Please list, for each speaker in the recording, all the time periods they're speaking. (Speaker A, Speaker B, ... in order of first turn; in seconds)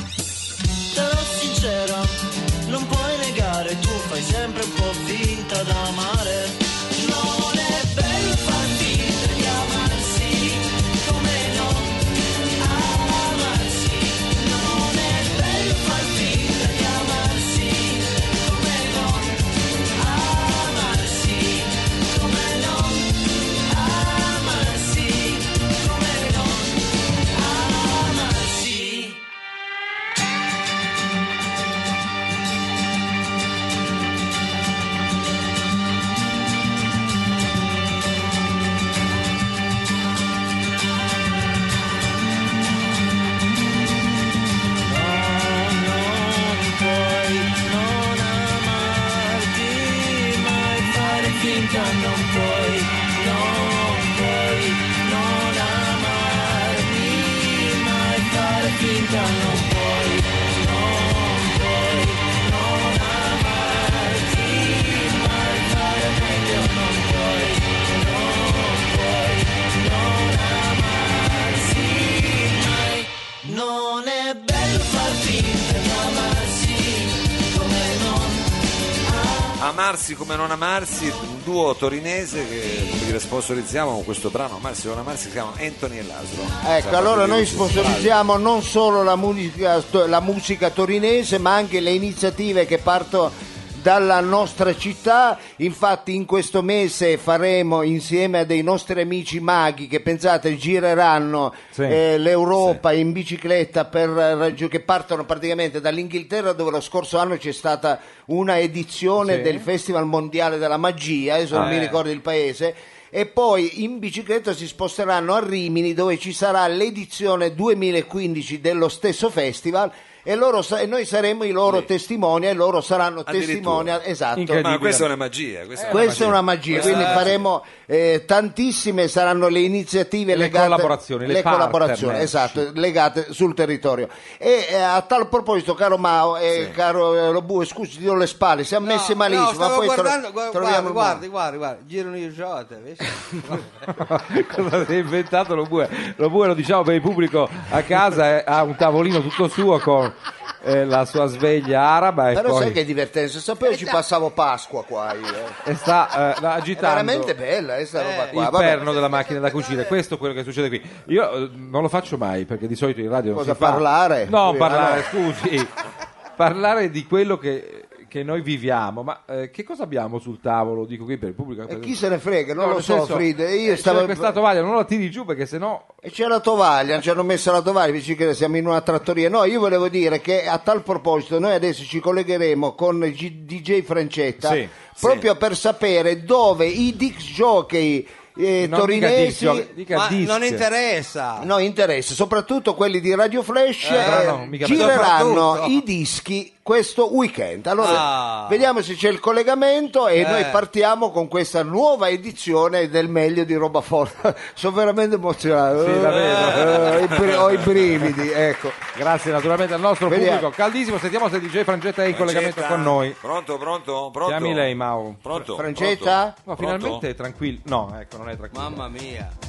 Speaker A: 0.9-12.1, 12.6-29.2, 44.9-78.5, 79.0-79.5
Speaker B: 79.6-88.1, 123.3-123.9, 124.6-127.4, 185.0-185.3, 207.3-207.8, 212.1-217.0
Speaker C: 86.6-124.9, 125.9-141.2, 152.3-155.6, 156.8-158.9, 163.3-165.1, 171.7-174.3, 176.0-189.7, 191.4-208.8, 210.1-210.5, 215.4-216.4
Speaker D: 101.7-102.0, 109.2-109.6, 124.4-125.1, 125.8-126.3, 130.3-132.7, 143.9-152.8, 155.6-157.3, 158.3-165.7, 166.4-171.9, 172.6-175.9, 184.4-184.7, 188.6-190.7, 193.9-195.1, 205.8-207.1, 208.9-213.2, 214.2-215.2, 216.5-218.8
Speaker E: 111.6-112.0, 126.8-127.2, 138.8-143.7, 158.0-158.3, 189.9-191.5, 193.8-195.8, 197.8-198.7, 200.2-200.6, 206.1-207.1, 218.5-219.3